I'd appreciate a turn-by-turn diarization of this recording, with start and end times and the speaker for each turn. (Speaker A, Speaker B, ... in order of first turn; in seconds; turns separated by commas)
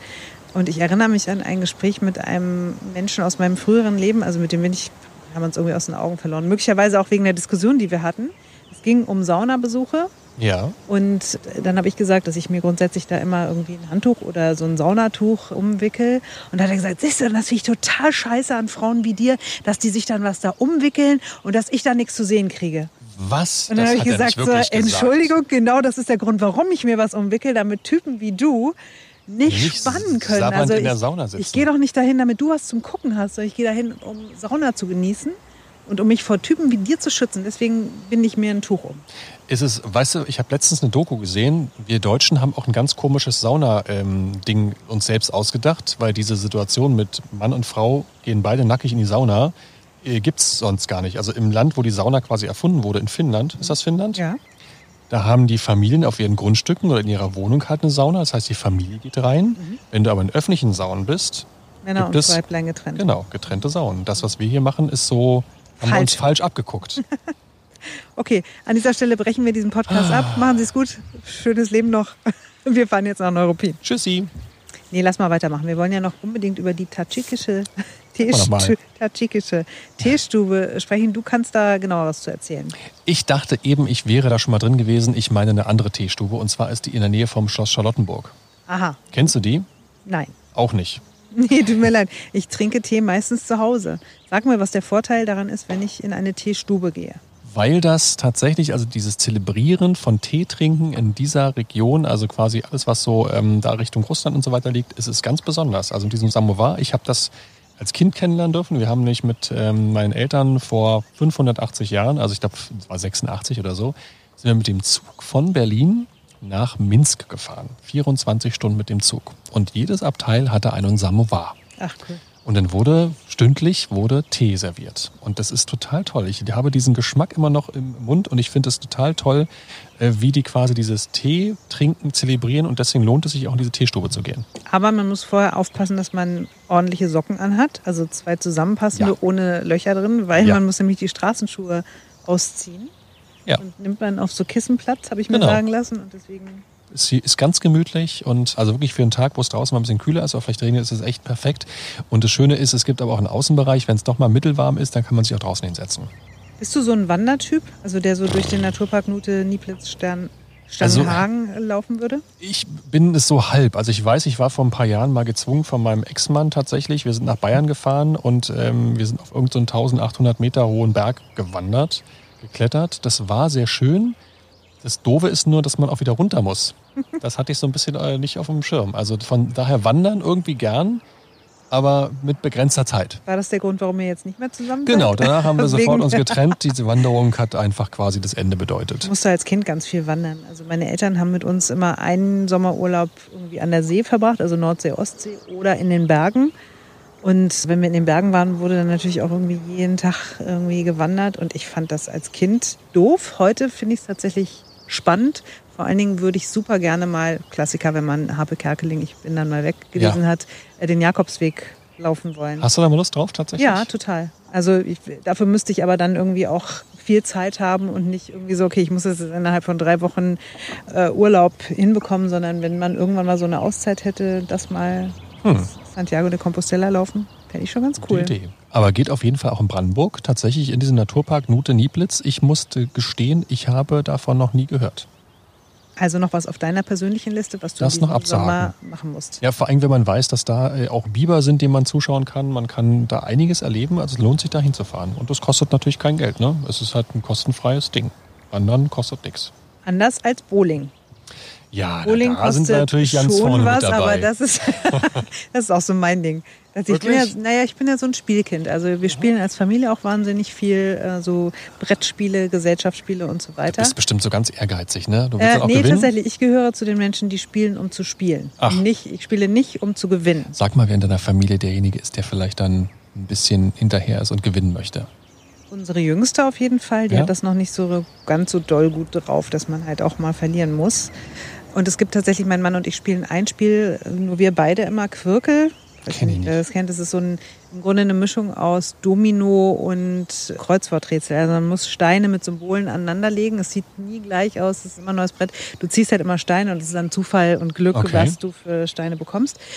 Speaker A: 0.5-10.1, Speaker B: 10.4-10.8, Speaker A: 10.9-22.9, Speaker B: 23.0-25.4, Speaker A: 23.7-28.8, Speaker A: 29.3-39.0, Speaker B: 29.4-31.7, Speaker B: 39.5-54.2, Speaker A: 53.6-54.4, Speaker B: 55.1-62.4, Speaker A: 59.5-59.8, Speaker A: 61.8-63.1, Speaker B: 62.9-67.0, Speaker A: 65.8-66.4, Speaker A: 67.0-67.3, Speaker A: 68.2-73.8, Speaker B: 69.9-70.7, Speaker B: 73.8-74.3, Speaker A: 74.9-82.7, Speaker B: 78.2-78.8, Speaker B: 83.0-88.3, Speaker A: 88.7-89.2, Speaker B: 89.1-89.7, Speaker A: 90.0-90.3, Speaker B: 90.5-91.0, Speaker A: 91.3-97.2, Speaker B: 97.4-121.6, Speaker A: 121.8-122.2, Speaker B: 122.4-134.4, Speaker A: 134.7-142.9, Speaker A: 143.6-146.6, Speaker B: 145.3-145.6, Speaker B: 146.9-156.1, Speaker A: 156.6-162.2, Speaker B: 160.8-161.2, Speaker B: 162.4-174.2, Speaker B: 174.8-181.0, Speaker B: 181.7-183.2, Speaker A: 183.2-186.5, Speaker B: 184.8-189.1, Speaker A: 189.0-196.5, Speaker A: 197.2-212.7, Speaker B: 212.6-213.9, Speaker A: 213.6-225.2, Speaker B: 225.4-225.7, Speaker A: 225.7-228.3, Speaker B: 228.0-235.1, Speaker A: 236.0-239.4, Speaker B: 237.8-238.7, Speaker B: 239.4-249.5, Speaker A: 249.8-250.9, Speaker B: 251.7-254.3, Speaker A: 252.0-264.0, Speaker B: 254.9-255.2, Speaker B: 256.9-257.3, Speaker B: 263.7-266.1, Speaker A: 265.4-270.6, Speaker B: 270.5-275.1, Speaker A: 275.7-281.1, Speaker A: 281.7-299.6, Speaker B: 286.1-286.6, Speaker B: 297.9-298.4